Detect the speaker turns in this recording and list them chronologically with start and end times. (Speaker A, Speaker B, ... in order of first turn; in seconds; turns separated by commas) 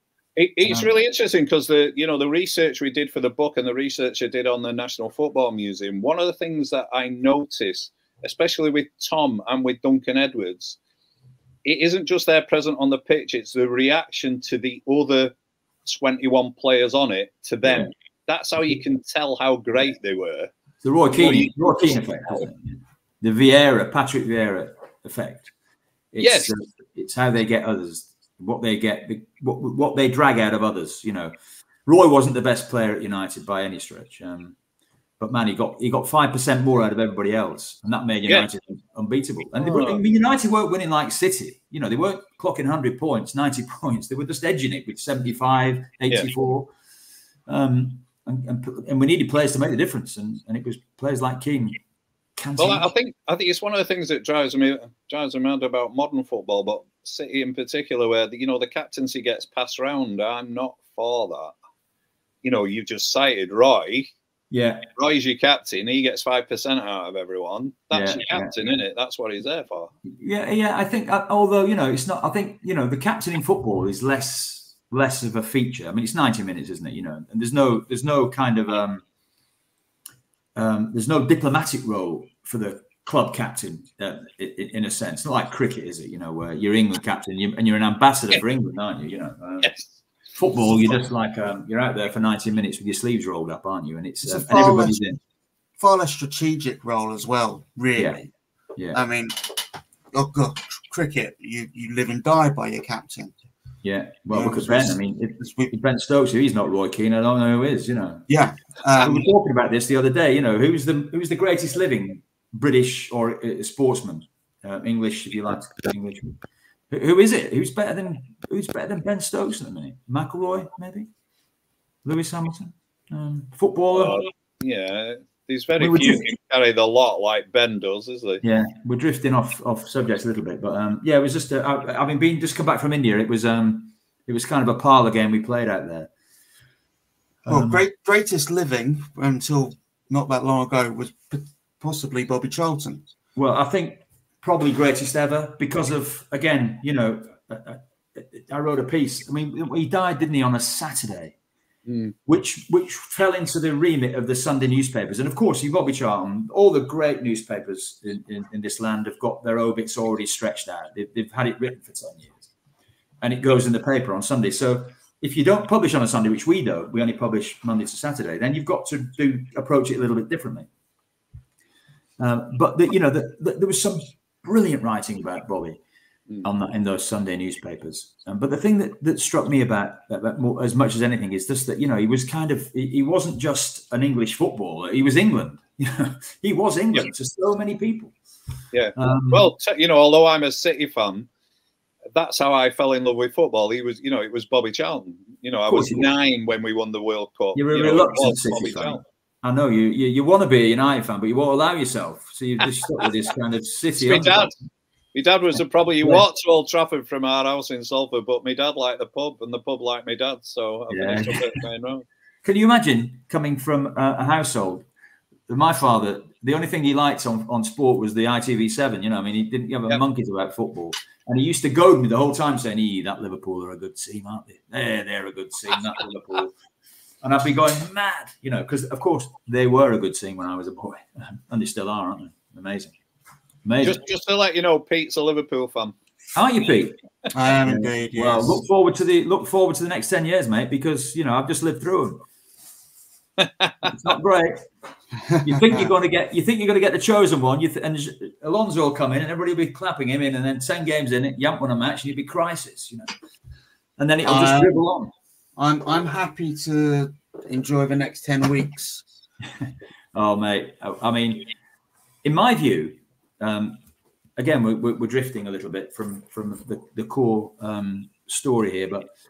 Speaker A: 0.4-10.8, Speaker B: 0.7-0.9, Speaker A: 11.7-20.5, Speaker B: 17.6-17.9, Speaker B: 20.8-25.5, Speaker A: 21.1-22.5, Speaker B: 26.1-31.3, Speaker A: 26.2-26.5, Speaker B: 31.9-34.5, Speaker B: 35.2-46.7, Speaker A: 39.6-40.0, Speaker B: 47.5-51.8, Speaker B: 52.4-52.9, Speaker A: 52.6-61.5, Speaker A: 62.4-64.1, Speaker B: 64.5-64.9, Speaker A: 65.0-69.9, Speaker B: 67.9-68.5, Speaker B: 70.0-79.0, Speaker B: 80.6-89.7, Speaker A: 89.6-89.9, Speaker B: 90.4-95.2, Speaker C: 94.2-95.0, Speaker C: 95.8-98.3, Speaker C: 98.9-99.4, Speaker C: 100.1-103.3, Speaker B: 103.8-108.3, Speaker C: 104.3-105.7, Speaker C: 108.3-109.3, Speaker B: 109.0-116.4, Speaker B: 116.9-121.1, Speaker B: 122.0-124.2, Speaker A: 123.9-128.4, Speaker B: 125.8-126.3, Speaker B: 128.4-136.1, Speaker B: 137.4-137.8, Speaker C: 137.5-143.1, Speaker B: 143.4-151.3, Speaker A: 151.9-152.2, Speaker B: 152.3-162.5, Speaker B: 163.2-170.7, Speaker B: 172.2-175.8, Speaker B: 176.4-188.1, Speaker A: 188.7-191.3, Speaker B: 189.0-189.5, Speaker A: 192.1-199.0, Speaker B: 195.7-196.1, Speaker B: 197.6-204.6, Speaker A: 204.0-204.5, Speaker A: 205.1-212.1, Speaker B: 210.9-211.6, Speaker B: 212.4-214.9, Speaker B: 215.5-226.5, Speaker B: 227.2-232.9, Speaker B: 233.6-234.0, Speaker A: 233.8-236.0, Speaker B: 236.4-237.0, Speaker C: 237.3-238.6, Speaker B: 237.6-242.2, Speaker A: 243.4-244.0, Speaker B: 243.8-244.6, Speaker C: 245.3-245.9, Speaker B: 245.4-253.1, Speaker B: 254.0-255.1, Speaker C: 254.2-254.8, Speaker C: 255.6-259.1, Speaker B: 259.6-261.5, Speaker B: 262.2-263.8, Speaker B: 264.4-269.1